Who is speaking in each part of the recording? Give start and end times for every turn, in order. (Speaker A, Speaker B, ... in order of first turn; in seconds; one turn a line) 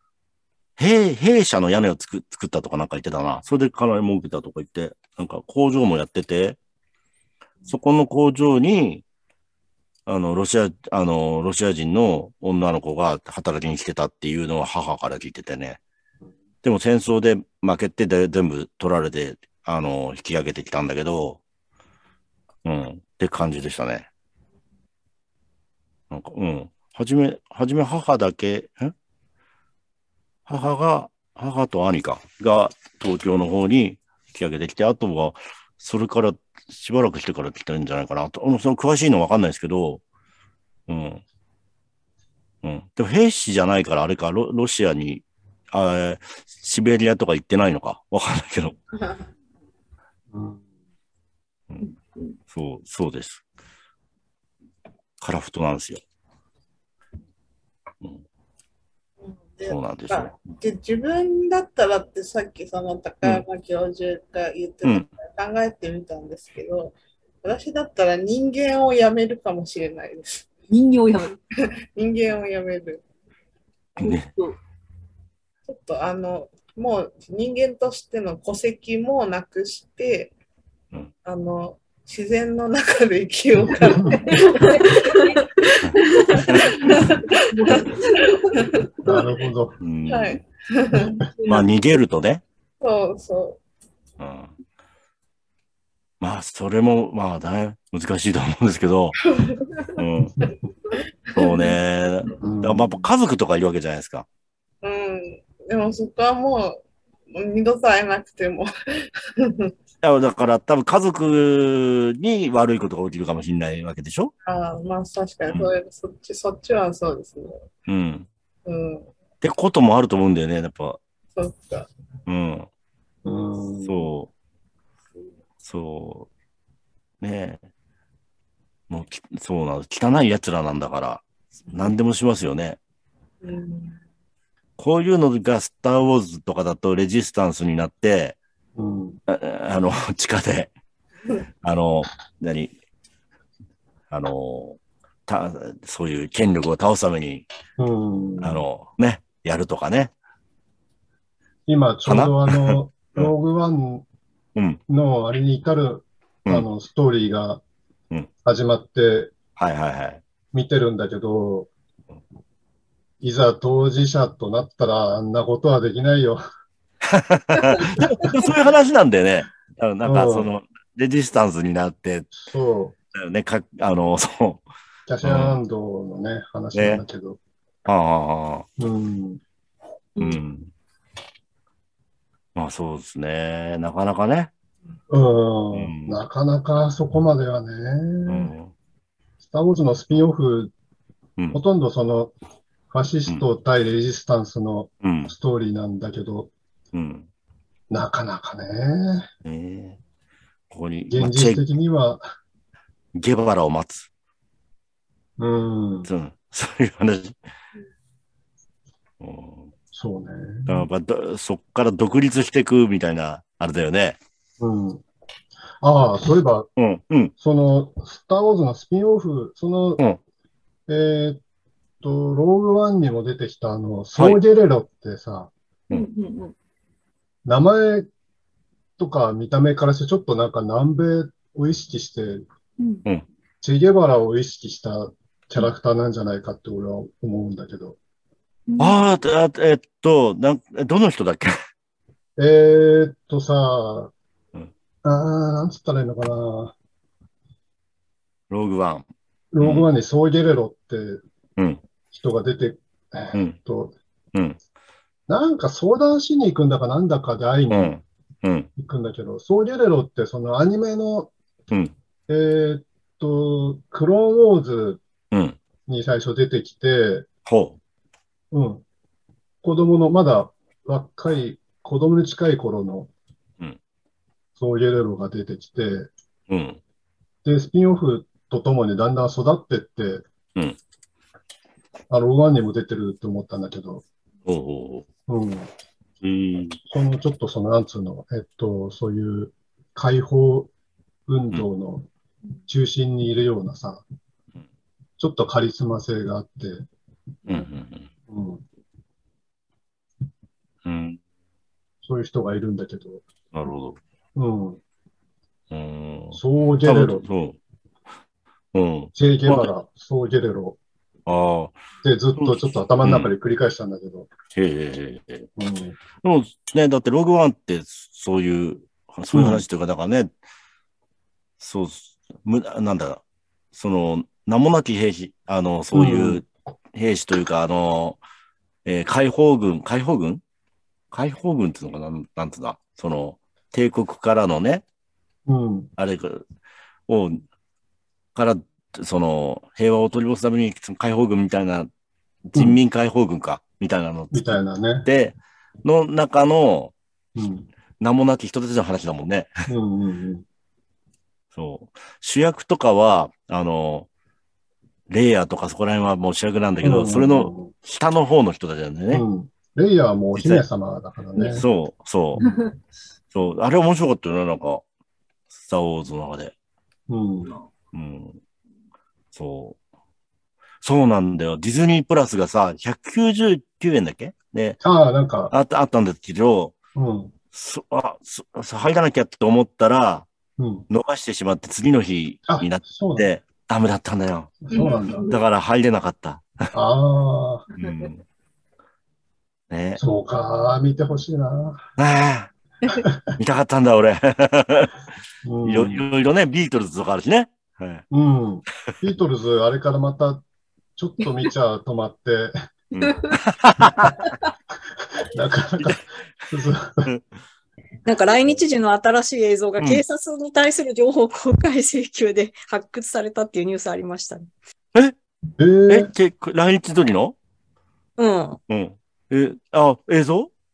Speaker A: 0.8-6.6
Speaker A: 7.7-9.0
Speaker A: 10.1-15.8
Speaker A: 16.6-21.4
Speaker A: 22.6-24.1
Speaker A: 26.1-28.9
Speaker A: 30.4-40.0
Speaker A: 40.9-41.2
Speaker A: 42.6-48.8
Speaker B: 50.3-50.6
Speaker C: 51.8-52.4
Speaker A: 52.5-53.4
Speaker A: 55.2-56.0
Speaker D: 59.2-70.5
Speaker A: 59.7-60.3
Speaker C: 70.7-71.4
Speaker D: 71.9-73.0
Speaker A: 74.0-74.3
Speaker C: 74.0-74.6
Speaker D: 75.7-80.3
Speaker D: 81.2-84.6
Speaker B: 83.9-84.2
Speaker C: 84.5-85.4
Speaker A: 85.8-87.0
Speaker C: 85.9-88.6
Speaker D: 86.1-87.3
Speaker D: 88.3-89.5
Speaker B: 89.0-89.8
Speaker A: 89.8-90.4
Speaker D: 90.1-91.6
Speaker C: 91.0-91.6
Speaker A: 91.5-92.4
Speaker D: 92.8-93.6
Speaker A: 94.2-94.5
Speaker A: 96.2-99.2
Speaker D: 99.4-99.9
Speaker A: 100.0-100.4
Speaker A: 101.3-104.2
Speaker D: 101.3-101.7
Speaker B: 102.4-103.1
Speaker D: 104.8-108.7
Speaker D: 109.4-109.7
Speaker A: 110.0-114.3
Speaker D: 114.5-117.6
Speaker A: 117.9-118.3
Speaker D: 118.7-119.1
Speaker A: 119.4-121.0
Speaker D: 121.3-121.9
Speaker A: 122.2-122.7
Speaker B: 123.2-124.1
Speaker A: 123.8-124.3
Speaker A: 125.6-126.3
Speaker A: 127.2-127.6
Speaker A: 128.9-132.8
Speaker D: 133.4-134.0
Speaker A: 134.8-138.4
Speaker B: 138.8-139.2
Speaker A: 139.3-140.7
Speaker A: 141.6-142.7
Speaker A: 144.1-147.5
Speaker B: 147.8-148.7
Speaker A: 148.4-150.1
Speaker B: 151.7-154.1
Speaker A: 152.1-153.3
Speaker B: 154.9-157.6
Speaker B: 158.4-159.3
Speaker A: 159.6-160.2
Speaker B: 160.5-161.7
Speaker B: 163.2-166.4
Speaker A: 167.1-172.3
Speaker B: 168.0-168.3
Speaker B: 170.0-170.5
Speaker B: 172.3-172.9
Speaker A: 173.1-174.6
Speaker B: 175.1-177.4
Speaker A: 175.2-175.6
Speaker A: 176.7-177.0
Speaker A: 177.8-178.7
Speaker B: 178.8-179.4
Speaker A: 180.2-180.7
Speaker A: 182.5-184.5
Speaker B: 185.1-188.5
Speaker A: 185.7-186.2
Speaker A: 188.3-188.7
Speaker B: 189.4-190.7
Speaker B: 191.5-192.3
Speaker B: 192.9-196.5
Speaker A: 195.0-195.3
Speaker A: 196.9-197.3
Speaker B: 197.9-199.2
Speaker A: 199.4-200.0
Speaker A: 200.7-201.6
Speaker B: 201.1-202.2
Speaker A: 203.1-204.1
Speaker B: 205.4-206.1
Speaker A: 206.1-207.4
Speaker A: 209.2-209.7
Speaker B: 209.9-210.9
Speaker A: 210.7-214.2
Speaker B: 214.6-215.0
Speaker B: 215.8-216.7
Speaker A: 216.8-217.3
Speaker B: 217.4-220.0
Speaker B: 220.9-221.4
Speaker B: 222.0-225.5
Speaker C: 225.9-226.5
Speaker B: 227.4-228.1
Speaker B: 229.0-232.4
Speaker C: 232.8-233.0
Speaker B: 233.6-238.0
Speaker C: 238.7-239.1
Speaker A: 238.8-241.5
Speaker B: 242.4-244.1
Speaker B: 245.0-246.7
Speaker A: 248.5-249.1
Speaker B: 249.5-251.2
Speaker A: 249.6-249.9
Speaker B: 252.1-253.9
Speaker B: 255.3-258.0
Speaker A: 257.7-258.7
Speaker B: 258.8-261.3
Speaker B: 262.3-265.0
Speaker A: 265.3-265.6
Speaker B: 265.9-267.2
Speaker A: 267.5-267.8
Speaker B: 268.5-268.8
Speaker B: 269.6-273.1
Speaker B: 274.6-276.1
Speaker A: 276.5-276.8
Speaker B: 277.4-280.2
Speaker B: 282.1-284.0
Speaker A: 284.4-285.1
Speaker B: 285.3-285.7
Speaker A: 286.2-286.8
Speaker B: 286.9-290.7
Speaker B: 291.3-292.1
Speaker B: 292.6-294.0
Speaker B: 295.2-296.9
Speaker A: 297.5-298.1
Speaker B: 298.3-298.6
Speaker A: 300.8-301.2
Speaker B: 302.0-303.2
Speaker A: 303.5-304.0
Speaker B: 304.4-304.8
Speaker A: 305.7-307.6
Speaker B: 306.3-307.3
Speaker A: 308.7-309.7
Speaker B: 309.1-310.8
Speaker A: 311.3-311.8
Speaker B: 312.0-314.3
Speaker A: 312.4-313.3
Speaker A: 314.5-315.5
Speaker B: 315.6-316.0
Speaker A: 316.2-320.3
Speaker B: 319.3-319.6
Speaker A: 321.6-323.2
Speaker A: 323.7-328.2
Speaker B: 325.9-326.4
Speaker A: 328.8-330.4
Speaker A: 331.1-334.8
Speaker B: 335.5-335.9
Speaker A: 336.0-336.4
Speaker A: 337.1-337.4
Speaker A: 338.3-341.9
Speaker A: 342.5-346.9
Speaker B: 344.3-345.1
Speaker B: 347.4-347.7
Speaker A: 348.0-349.5
Speaker B: 349.7-350.4
Speaker A: 351.5-354.1
Speaker A: 355.1-359.2
Speaker B: 356.8-357.7
Speaker B: 359.1-361.7
Speaker A: 360.3-360.6
Speaker A: 361.5-362.4
Speaker A: 363.3-364.8
Speaker A: 365.5-366.5
Speaker B: 367.1-367.5
Speaker A: 367.9-368.4
Speaker A: 369.3-369.8
Speaker A: 370.8-374.8
Speaker B: 374.8-375.5
Speaker A: 375.5-376.7
Speaker B: 376.9-377.3
Speaker A: 377.5-380.3
Speaker B: 380.6-380.9
Speaker A: 380.9-386.4
Speaker B: 382.5-383.3
Speaker B: 384.6-385.3
Speaker C: 384.7-385.3
Speaker B: 386.7-387.6
Speaker A: 387.8-388.2
Speaker A: 389.7-390.0
Speaker B: 390.0-391.9
Speaker A: 392.0-392.5
Speaker B: 392.9-393.2
Speaker A: 393.4-394.9
Speaker B: 395.4-396.0
Speaker A: 395.6-398.0
Speaker B: 398.1-400.4
Speaker B: 401.0-402.5
Speaker A: 402.9-404.1
Speaker B: 405.1-407.1
Speaker E: 408.0-414.5
Speaker B: 415.6-416.1
Speaker A: 415.9-417.4
Speaker E: 418.2-418.6
Speaker A: 418.7-420.5